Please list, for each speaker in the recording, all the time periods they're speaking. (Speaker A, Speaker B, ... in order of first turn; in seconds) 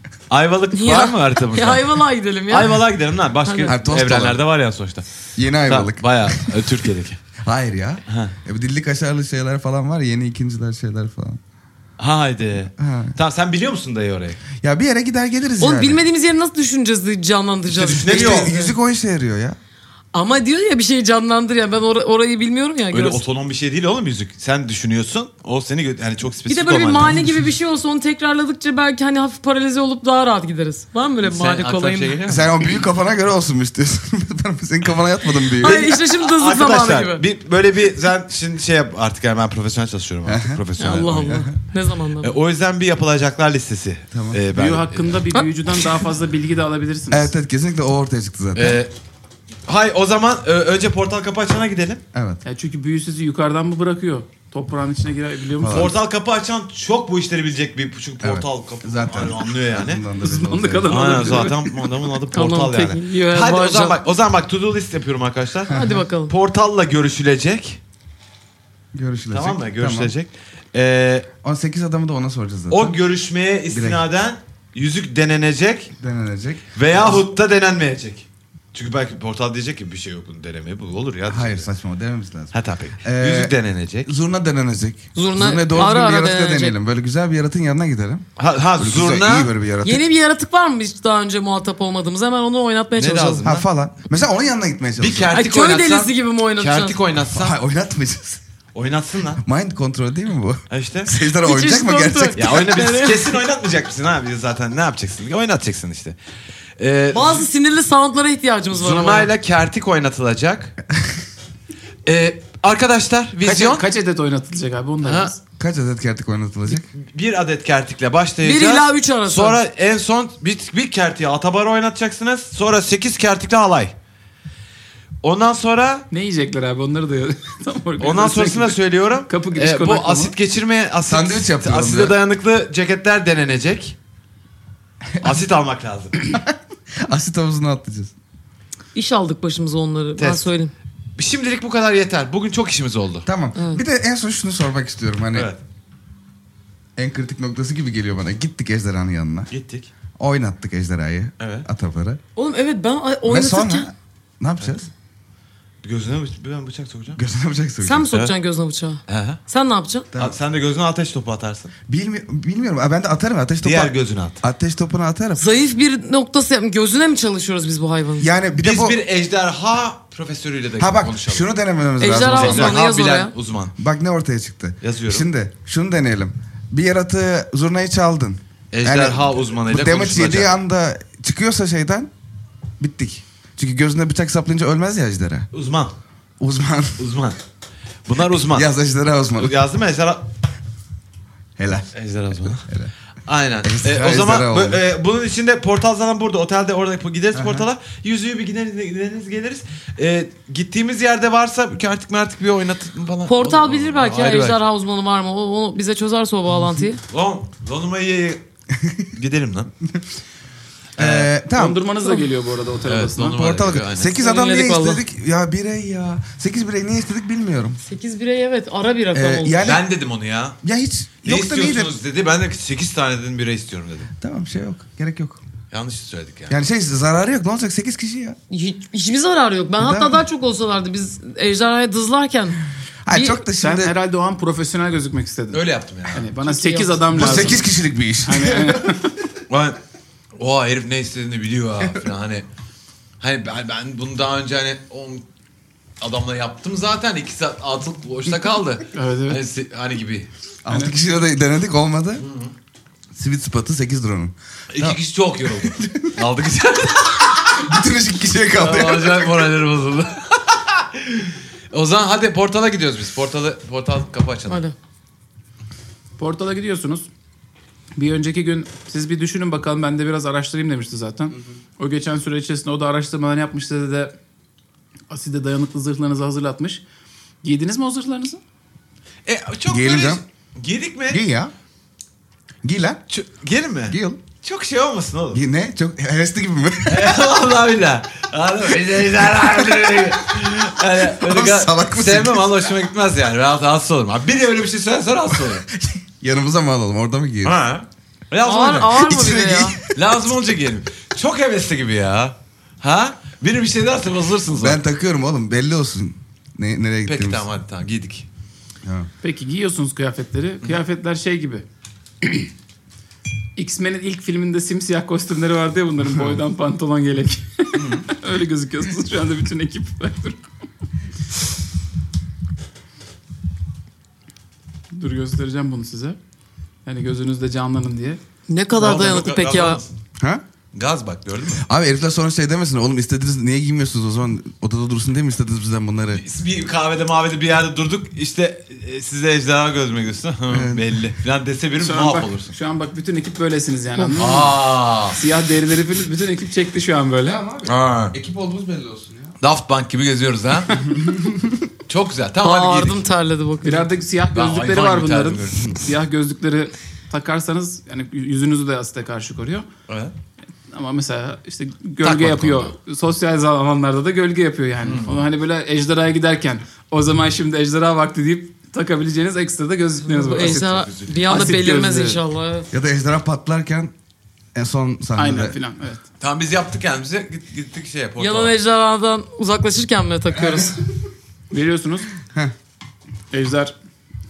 Speaker A: 0.3-5.0, 5.7-7.2, 8.1-8.3, 12.0-14.4, 17.7-18.5, 22.9-27.3, 31.2-32.5, 35.6-41.5, 42.2-45.2, 48.5-48.9, 49.7-52.0, 55.7-60.0, 60.9-67.8, 69.3-71.3, 72.7-75.9, 76.7-81.7, 82.5-84.1, 88.4-89.5, 93.0-93.7, 95.0-97.6, 98.8-99.4, 100.7-101.1, 102.4-106.2, 106.8-107.5, 108.7-110.8, 112.1-113.8, 115.0-115.3, 116.9-124.0, 125.2-126.1, 128.0-134.0, 135.2-136.3, 140.2-140.5, 141.2-143.2, 145.3-145.6, 149.5-149.9, 151.4-151.7, 155.8-157.2, 159.1-159.4, 160.2-161.7, 163.6-164.4, 168.6-171.5, 172.3-173.7, 174.8-175.3, 178.7-180.5, 185.5-185.9, 187.0-187.4, 188.1-188.7, 189.4-190.2, 191.9-192.6, 193.3-204.6, 207.1-208.4, 209.1-209.7, 211.0-211.3, 212.8-214.2, 219.6-220.6, 221.2-224.1, 225.7-226.6, 235.5-236.3, 239.5-239.8, 240.4-242.5, 243.2-245.2, 246.0-250.3, 252.2-252.5, 254.7-257.6, 258.5-264.6, 279.3-281.2, 283.1-285.4, 286.9-295.7, 297.4-299.1, 299.9-304.8, 307.1-308.3, 317.8-318.1, 328.8-329.9, 330.7-331.6, 336.1-342.5, 344.1-345.2, 347.6-348.1, 349.4-350.9, 351.9-353.1, 354.3-355.8, 359.9-360.1, 362.0-362.7, 364.8-365.2, 370.4-371.4, 376.2-378.5
Speaker B: 0.7-2.8, 3.5-3.7, 15.6-18.7, 20.1-23.2, 26.5-32.2, 35.6-37.2, 40.8-42.3, 62.3-64.0, 65.7-66.3, 85.2-86.8, 89.8-93.5, 95.3-97.0, 101.3-103.4, 107.1-109.3, 118.4-119.6, 138.9-140.7, 143.6-143.8, 152.4-153.9, 157.8-160.1, 165.4-168.3, 172.0-173.3, 203.3-207.0, 214.2-215.0, 217.8-219.6, 228.5-232.6, 233.1-233.4, 236.4-237.5, 264.5-264.8, 298.4-299.8, 328.5-329.8, 352.4-353.9, 370.1-372.7, 378.2-380.8
Speaker C: 3.7-4.4, 5.4-6.6, 7.4-11.4, 12.8-13.2, 14.6-16.0, 17.8-19.6, 32.3-35.9, 40.2-41.6, 44.1-44.4, 47.1-48.8, 52.1-52.4, 55.6-55.9, 58.2-61.2, 65.7-66.0, 69.0-70.1, 71.4-73.0, 73.7-74.0, 76.0-77.2, 81.3-82.5, 83.0-83.5, 84.1-88.3, 88.8-90.0, 93.4-95.4, 97.3-98.4, 99.4-102.7, 115.6-116.9, 131.1-132.2, 136.3-138.1, 143.3-145.5, 147.0-149.5, 150.2-152.2, 153.2-154.9, 157.2-158.1, 161.9-165.5, 168.2-169.0, 170.8-172.8, 173.8-182.1, 182.8-185.5, 186.4-187.0, 188.4-189.6, 191.6-191.9, 192.4-192.9, 193.6-194.8, 197.3-197.7, 206.5-206.8, 208.8-209.1, 211.0-211.8, 213.2-217.8, 219.1-219.8, 220.6-221.9, 224.2-225.4, 226.5-228.4, 229.8-230.2, 233.1-233.9, 237.1-238.8, 250.7-252.2, 253.1-255.0, 255.6-256.1, 257.6-259.3, 279.7-280.2, 281.1-281.5, 282.6-283.0, 283.9-284.2, 285.3-287.1, 289.6-290.1, 291.0-292.7, 295.7-297.6, 298.9-299.9, 304.5-307.4, 331.6-336.2, 340.5-340.9, 347.2-349.3, 350.9-351.7, 372.7-373.9, 374.6-375.6, 380.3-380.7
Speaker D: 44.5-47.3, 52.5-55.9, 60.2-61.9, 113.4-115.4, 126.1-130.3, 211.5-213.4, 233.6-237.7, 238.2-239.1, 248.9-249.4, 266.2-267.1, 268.0-274.1, 275.1-276.8, 277.4-278.4, 309.2-311.6, 312.2-312.5, 313.6-320.4, 324.9-326.2, 326.9-328.2, 341.8-347.4, 353.6-359.7, 360.7-372.2, 375.2-376.0, 381.5-382.1, 383.3-383.7